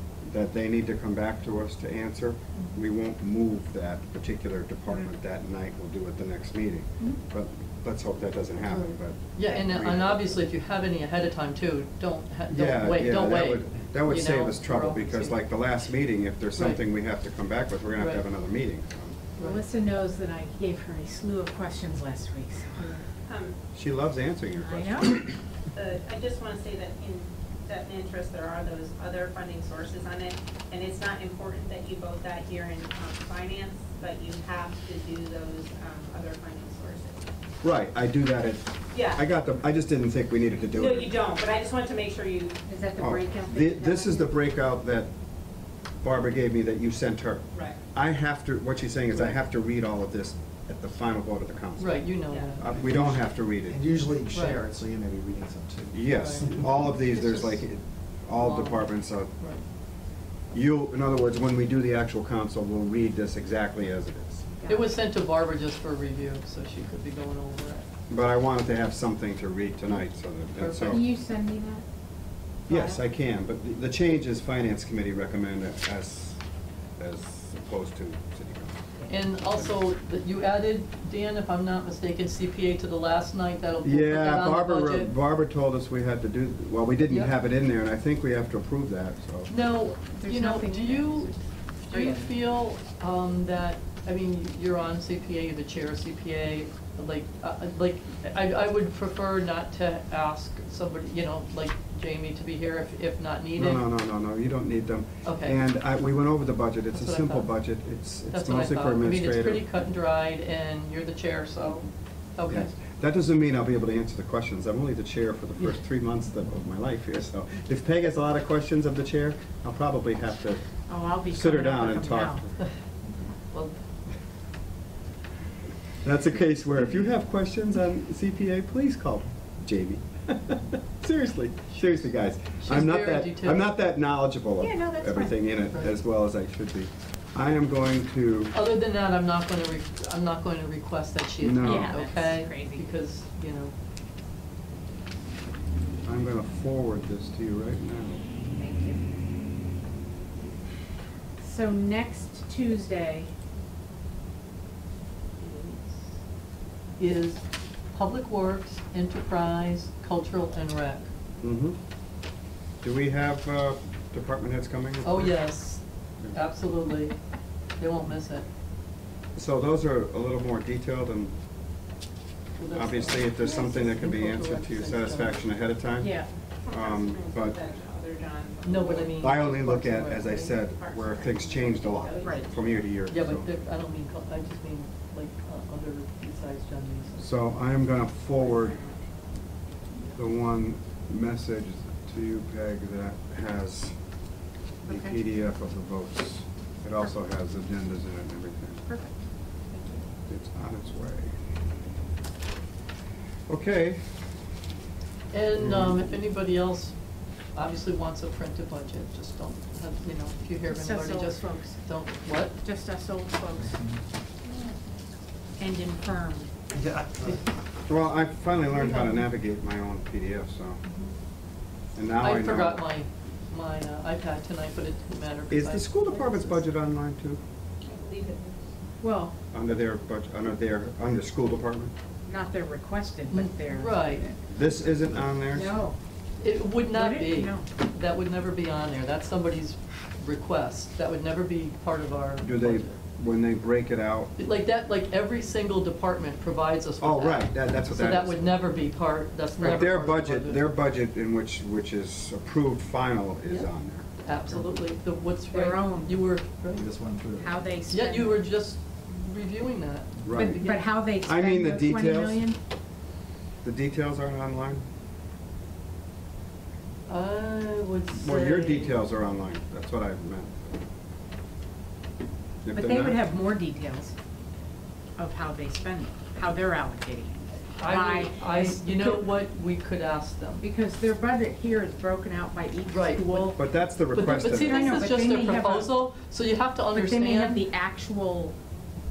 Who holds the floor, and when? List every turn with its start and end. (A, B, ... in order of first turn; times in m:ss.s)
0:00.2-0:10.4 A
0:08.7-0:15.4 B
0:12.5-0:19.2 A
0:18.0-0:18.2 B
0:19.4-0:19.6 B
0:19.4-0:23.0 C
0:23.3-0:23.6 D
0:23.7-0:25.4 A
0:24.6-0:25.2 C
0:25.7-0:37.3 D
0:37.6-0:41.1 A
0:38.9-0:39.2 D
0:40.7-0:42.6 D
0:42.7-0:44.3 C
0:43.0-0:45.1 A
0:46.0-0:52.0 A
0:51.8-0:52.6 B
0:52.3-0:52.6 D
0:52.6-0:53.9 A
0:52.6-0:57.0 E
0:54.3-0:54.6 B
0:55.9-0:59.3 A
0:56.1-0:57.6 B
0:58.4-0:59.6 B
1:00.5-1:04.5 A
1:04.6-1:04.9 C
1:04.7-1:07.9 B
1:08.1-1:11.0 A
1:10.6-1:11.0 B
1:10.9-1:11.8 C
1:12.7-1:16.4 A
1:12.7-1:13.0 C
1:17.0-1:18.9 A
1:19.1-1:25.1 B
1:23.8-1:29.5 A
1:29.5-1:31.3 B
1:30.2-1:31.4 C
1:31.9-1:32.3 C
1:31.9-1:43.8 B
1:43.6-1:49.7 A
1:45.2-1:45.6 B
1:46.9-1:47.5 B
1:48.3-1:52.7 B
1:52.5-2:00.7 A
2:00.9-2:02.4 C
2:01.2-2:02.5 A
2:06.0-2:18.5 A
2:12.4-2:13.6 B
2:14.6-2:15.4 C
2:18.5-2:23.7 B
2:21.4-2:22.0 A
2:21.6-2:22.9 C
2:26.0-2:28.2 A
2:28.5-2:29.1 C
2:31.4-2:33.3 C
2:35.4-2:36.0 B
2:37.0-2:41.1 B
2:41.4-2:41.8 A
2:42.8-2:45.4 A
2:45.0-2:47.1 B
2:47.8-2:48.4 B
2:49.4-2:51.4 A
2:52.6-2:55.4 B
2:52.7-2:57.6 A
2:56.0-2:56.3 C
2:56.6-2:59.4 D
2:58.6-3:00.6 B
2:59.2-3:03.5 A
3:00.2-3:02.7 D
3:02.2-3:02.5 C
3:03.1-3:07.2 B
3:07.2-3:08.8 A
3:08.6-3:09.0 C
3:10.2-3:14.0 A
3:14.8-3:18.8 A
3:14.9-3:15.2 C
3:18.8-3:20.0 C
3:20.3-3:21.4 A
3:23.5-3:24.0 A
3:25.3-3:27.0 B
3:27.6-3:32.6 B
3:30.7-3:31.8 C
3:32.6-3:33.8 C
3:35.6-3:36.6 C
3:36.7-3:37.4 E
3:37.9-3:40.8 A
3:42.0-3:42.8 A
3:42.2-3:46.6 B
3:45.5-3:47.4 A
3:47.8-3:48.6 D
3:49.0-3:49.4 C
3:49.5-3:51.9 A
3:52.3-3:54.3 C
3:53.3-3:54.3 B
3:54.5-3:55.7 A
3:55.5-3:56.0 C
3:56.4-4:03.0 B
3:56.9-3:57.7 C
4:02.4-4:04.3 A
4:04.4-4:10.7 B
4:07.0-4:08.6 A
4:09.6-4:14.8 A
4:14.2-4:16.9 B
4:15.5-4:16.3 C
4:16.7-4:17.6 E
4:17.4-4:18.4 C
4:17.9-4:20.8 B
4:20.2-4:22.4 A
4:20.3-4:22.6 C
4:23.6-4:24.8 A
4:27.1-4:29.0 B
4:28.1-4:30.7 A
4:32.6-4:33.2 A
4:32.7-4:34.1 C
4:35.2-4:39.3 C
4:37.8-4:40.6 B
4:40.6-4:43.6 C
4:42.9-4:43.6 B
4:43.5-4:45.3 A
4:44.1-4:47.6 B
4:44.4-4:46.0 C
4:46.9-4:48.6 C